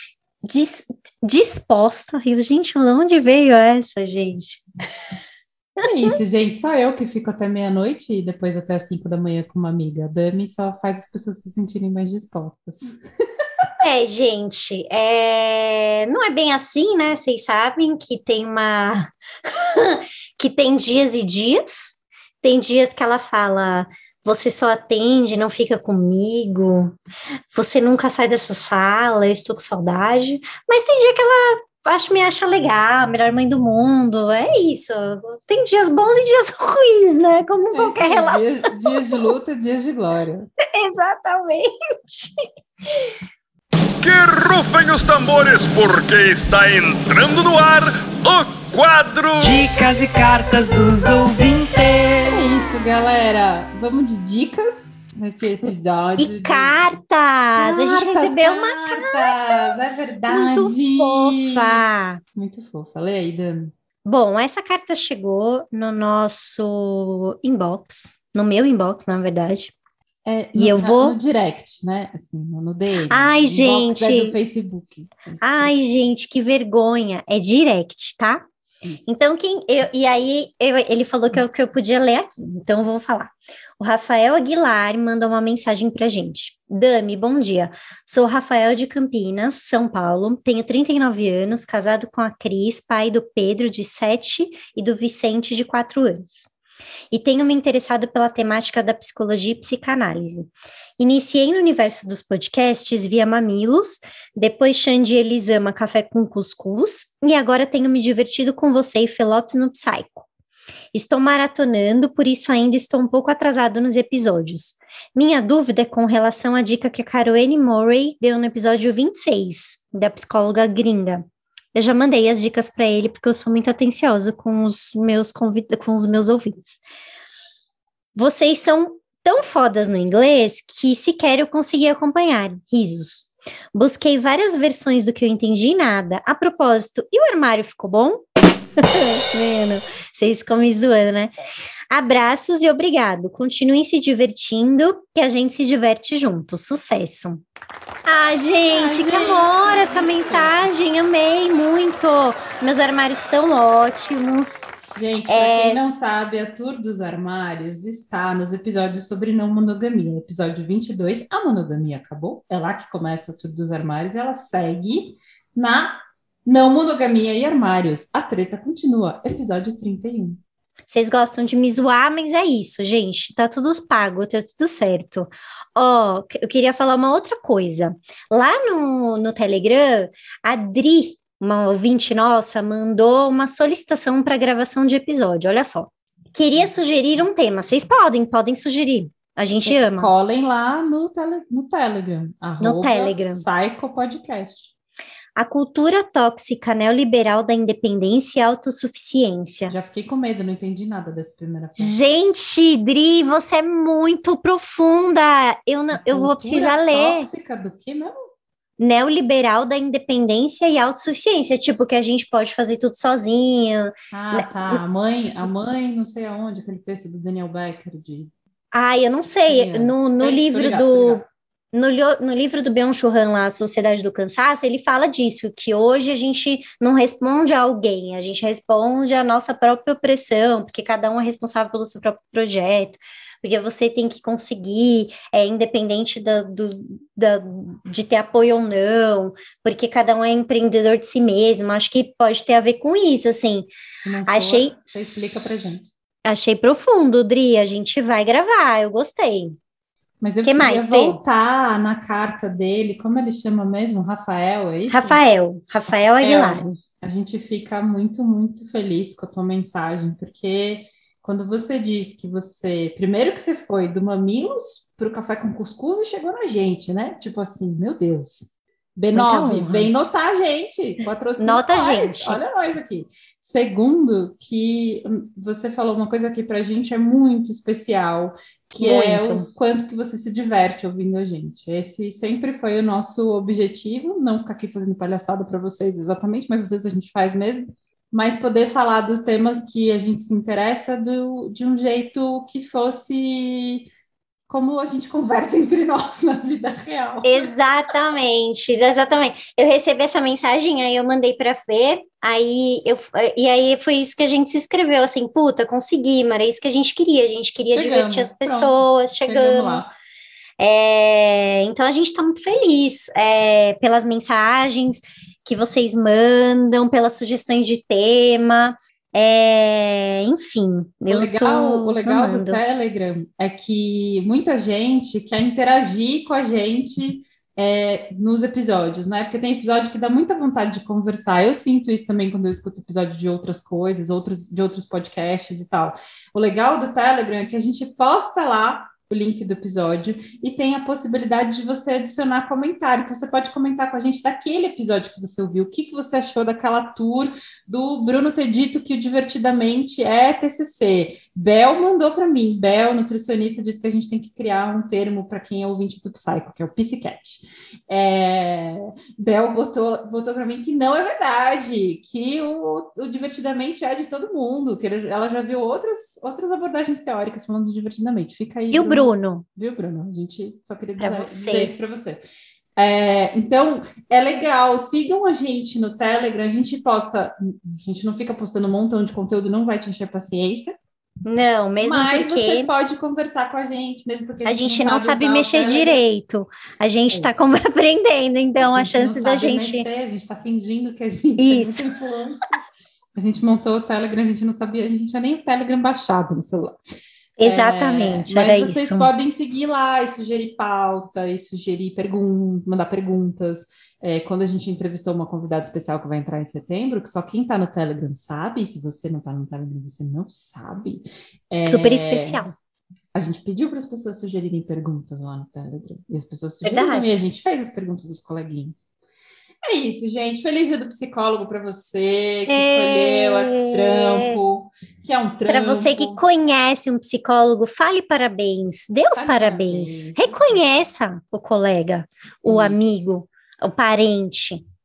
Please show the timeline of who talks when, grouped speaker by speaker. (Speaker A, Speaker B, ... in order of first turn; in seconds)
Speaker A: 0.5-4.6, 13.8-26.9, 27.5-39.3, 40.6-42.3, 56.2-59.7, 60.3-62.2, 64.0-69.7, 70.5-71.2, 73.1-74.3, 75.4-78.4, 79.1-96.5, 97.1-110.2, 110.9-126.8, 128.1-138.2, 138.8-141.3, 141.9-147.4, 148.1-154.7, 155.3-155.8, 170.9-190.1, 192.6-193.4, 195.3-199.7, 201.8-207.3, 208.8-214.8, 218.7-243.7, 244.3-245.4, 246.2-249.6, 250.4-251.2, 254.9-256.8, 269.1-269.9, 271.4-272.4, 278.8-279.4, 297.2-309.8, 310.6-322.6, 368.7-369.4, 371.0-371.7, 381.2-382.7, 384.4-389.9, 391.4-391.9, 397.4-399.1, 411.6-412.5, 416.6-417.2, 422.5-424.4, 425.5-434.6
Speaker B: 5.8-13.0, 37.7-40.5, 52.3-56.9, 57.6-63.7, 70.2-75.7, 148.7-150.7, 154.9-170.4, 189.6-194.7, 199.7-202.0, 205.9-208.2, 214.1-218.3, 219.5-221.2, 244.0-245.9, 250.2-255.2, 256.2-293.9, 294.5-297.5, 307.7-309.9, 321.1-372.2, 372.8-380.7, 381.8-386.0, 387.1-387.6, 388.6-392.6, 393.1-396.8, 397.4-412.4, 413.1-418.9, 419.6-426.2, 429.1-430.4, 432.4-433.0
Speaker C: 44.0-49.5
Speaker D: 49.4-52.4